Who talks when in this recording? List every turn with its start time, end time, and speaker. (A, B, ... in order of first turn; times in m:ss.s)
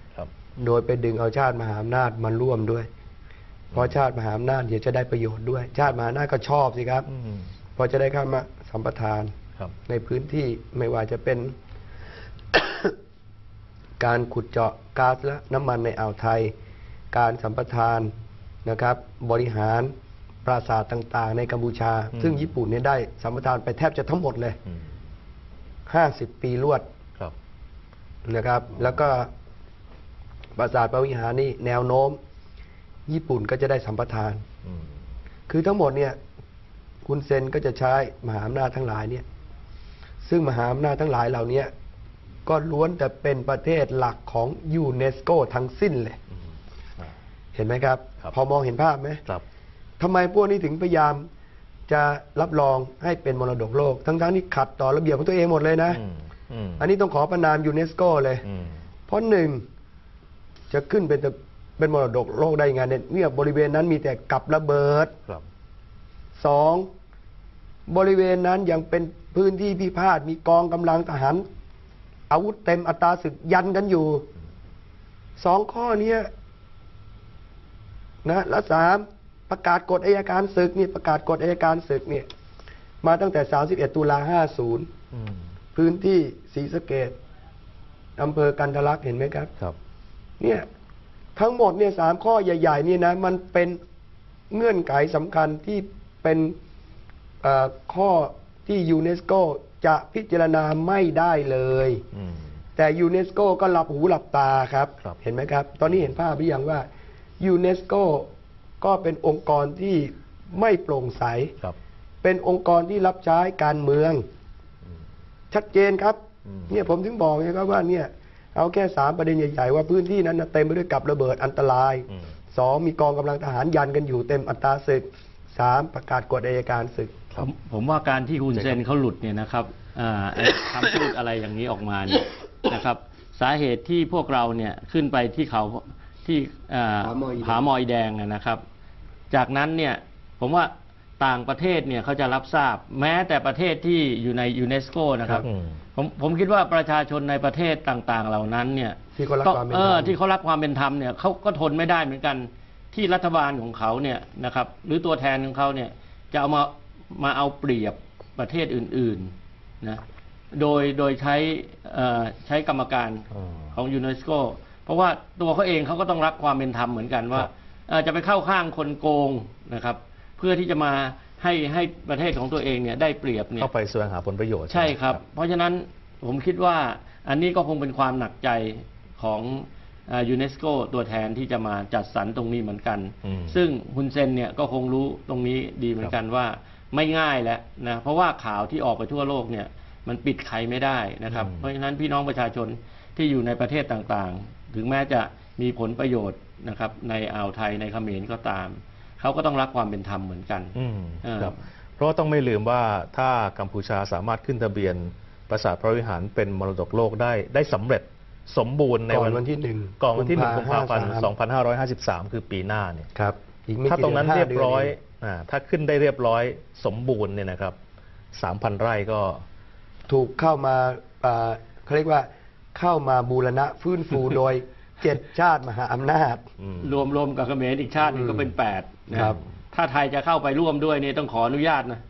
0:00.6-0:02.9 A
0:03.7-0:07.1 A
0:07.1-0:07.5 B
0:07.7-0:09.3 A
0:09.8-0:11.5 A
0:12.5-0:12.9 A
0:14.0-0:16.5 A
0:17.1-0:18.1 A
0:18.6-0:19.9 A
0:20.4-0:24.6 A
0:22.1-0:22.5 B
0:25.9-0:26.8 A
0:28.2-0:29.3 A
0:30.6-0:32.2 A
0:33.1-0:34.4 A
0:34.6-0:34.9 B
0:35.5-0:36.2 A
0:37.0-0:39.2 A
0:40.2-0:41.7 A
0:42.4-0:46.2 A
0:47.5-0:49.2 A
0:50.0-0:51.3 A
0:51.9-0:56.0 A
0:55.9-0:56.9 B
0:56.8-0:58.4 A
0:58.4-0:58.8 B
0:59.1-0:59.6 A
1:00.7-1:05.1 A
1:06.4-1:06.9 A
1:07.9-1:11.4 A
1:12.3-1:14.3 A
1:15.4-1:16.3 A
1:18.2-1:22.3 A
1:23.0-1:24.9 A
1:25.1-1:25.4 B
1:25.7-1:27.2 A
1:28.2-1:29.5 A
1:30.4-1:30.7 A
1:31.4-1:33.8 A
1:34.5-1:36.5 A
1:37.4-1:42.0 A
1:42.1-1:42.5 B
1:42.8-1:46.9 A
1:47.4-1:48.3 A
1:48.8-1:51.6 A
1:52.2-1:54.2 A
1:55.5-2:07.2 A
1:56.4-1:56.8 B
2:07.4-2:18.6 C
2:17.0-2:17.6 A
2:19.3-2:40.0 C
2:25.4-2:25.8 B
2:29.1-2:30.2 A
2:40.5-2:53.7 C
2:43.3-2:43.7 B
2:53.6-2:55.2 B
2:54.7-3:21.6 C
3:03.2-3:03.6 B
3:11.3-3:11.7 B
3:20.7-3:29.4 B
3:29.1-3:31.3 A
3:30.0-3:33.1 B
3:33.1-3:34.9 A
3:33.8-3:37.8 B
3:38.3-3:39.4 B
3:40.1-3:46.4 A
3:46.6-3:47.0 B
3:46.8-3:52.0 C
3:48.0-3:48.5 A
3:49.1-3:49.4 A
3:49.1-3:49.4 B